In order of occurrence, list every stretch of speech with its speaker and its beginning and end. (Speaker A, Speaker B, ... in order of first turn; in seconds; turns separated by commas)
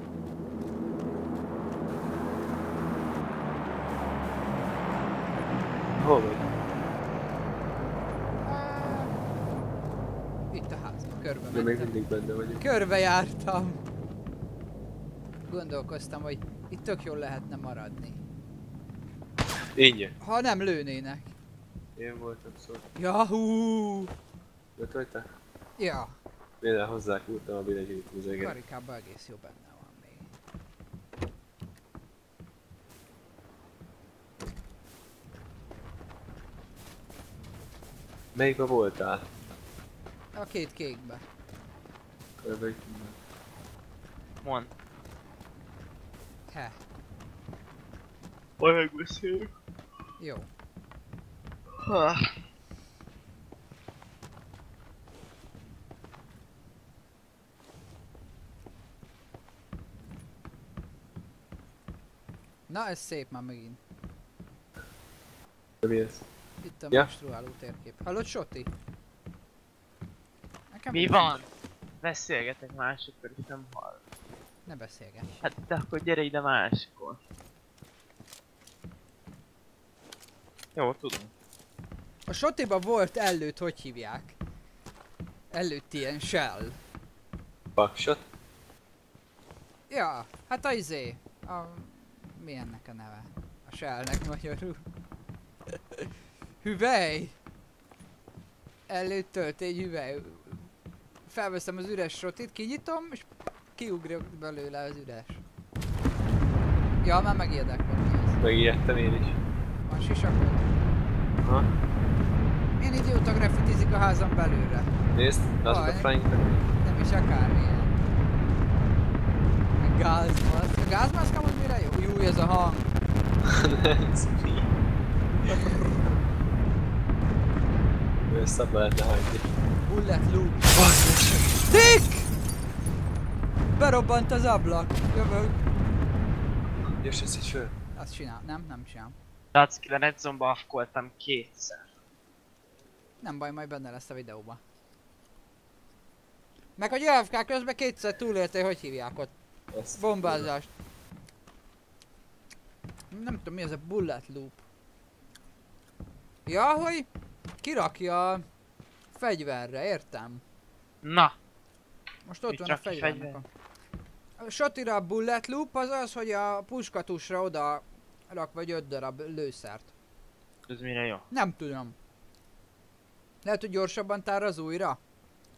Speaker A: 6.0-6.5, Speaker B: 8.4-9.2, Speaker B: 10.5-12.0, Speaker A: 11.5-12.6, Speaker B: 12.6-13.8, Speaker B: 15.5-18.2, Speaker A: 19.7-20.1, Speaker B: 20.2-21.3, Speaker A: 22.0-22.9, Speaker B: 22.9-24.1, Speaker A: 24.8-25.3, Speaker B: 25.8-26.1, Speaker A: 26.6-28.5, Speaker B: 28.4-30.3, Speaker A: 38.3-39.2, Speaker B: 40.3-41.2, Speaker A: 42.4-43.2, Speaker C: 44.4-44.7, Speaker B: 46.5-46.8, Speaker C: 48.6-49.5, Speaker B: 50.2-50.5, Speaker C: 51.8-52.4, Speaker B: 62.7-63.8, Speaker A: 65.8-66.2, Speaker B: 66.6-68.7, Speaker B: 70.7-71.5, Speaker C: 70.9-71.5, Speaker C: 72.0-74.0, Speaker B: 74.7-75.3, Speaker C: 75.4-77.2, Speaker C: 80.7-81.3, Speaker B: 82.3-84.4, Speaker B: 85.5-86.8, Speaker A: 87.8-88.2, Speaker B: 89.9-94.8, Speaker B: 95.7-96.1, Speaker B: 96.6-97.3, Speaker B: 98.9-100.7, Speaker B: 101.2-105.4, Speaker B: 107.0-108.4, Speaker A: 108.4-109.4, Speaker B: 109.8-110.8, Speaker A: 111.4-111.7, Speaker B: 112.8-114.9, Speaker A: 115.1-116.7, Speaker B: 115.6-116.1, Speaker B: 116.8-118.0, Speaker B: 119.8-122.9, Speaker A: 123.4-124.7, Speaker B: 125.5-125.9, Speaker A: 128.3-129.5, Speaker B: 129.9-130.8, Speaker A: 130.7-131.7, Speaker B: 131.6-132.3, Speaker B: 133.7-135.6, Speaker A: 137.0-137.7, Speaker B: 137.9-139.2, Speaker C: 139.5-141.9, Speaker B: 143.2-144.6, Speaker B: 146.8-149.3, Speaker A: 149.7-150.5, Speaker B: 149.9-150.7, Speaker B: 153.1-154.6, Speaker B: 156.4-157.1, Speaker B: 157.6-158.4, Speaker B: 159.1-160.4, Speaker C: 161.0-161.3, Speaker B: 162.3-163.4, Speaker C: 162.5-163.4, Speaker B: 164.4-169.9, Speaker C: 170.7-171.2, Speaker B: 171.3-171.9, Speaker B: 173.4-175.0